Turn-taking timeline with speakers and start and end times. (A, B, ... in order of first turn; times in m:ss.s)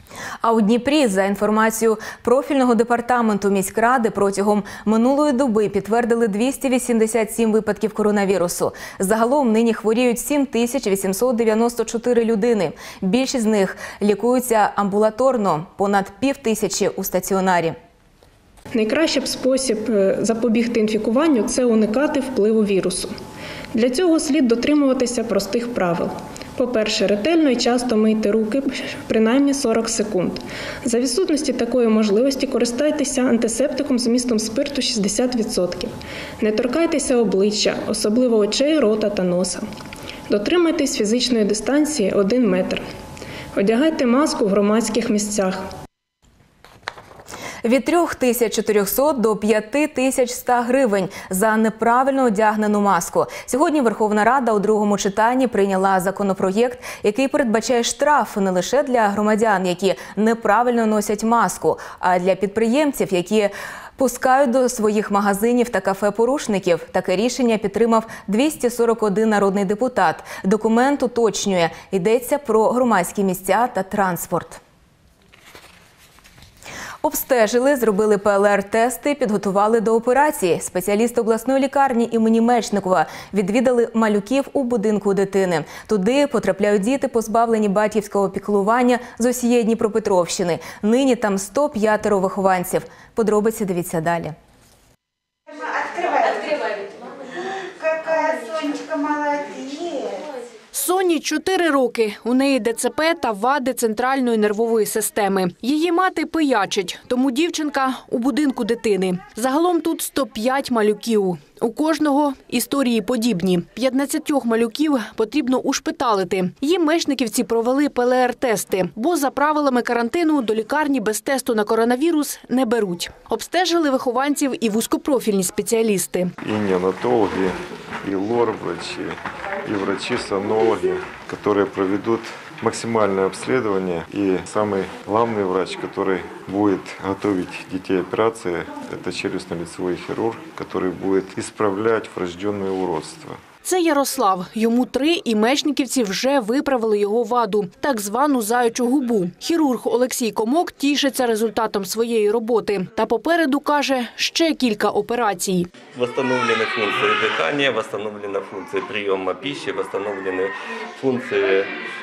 0:00.4-0:17.8 A
0:18.7-0:23.1 B
0:23.7-0:39.7 B
0:40.3-0:42.8 B
0:43.6-0:45.6 B
0:47.6-1:14.6 A
1:17.0-1:34.4 A
1:40.7-2:06.3 C
2:06.4-2:23.4 D
2:23.6-2:35.7 C
2:35.9-2:41.7 E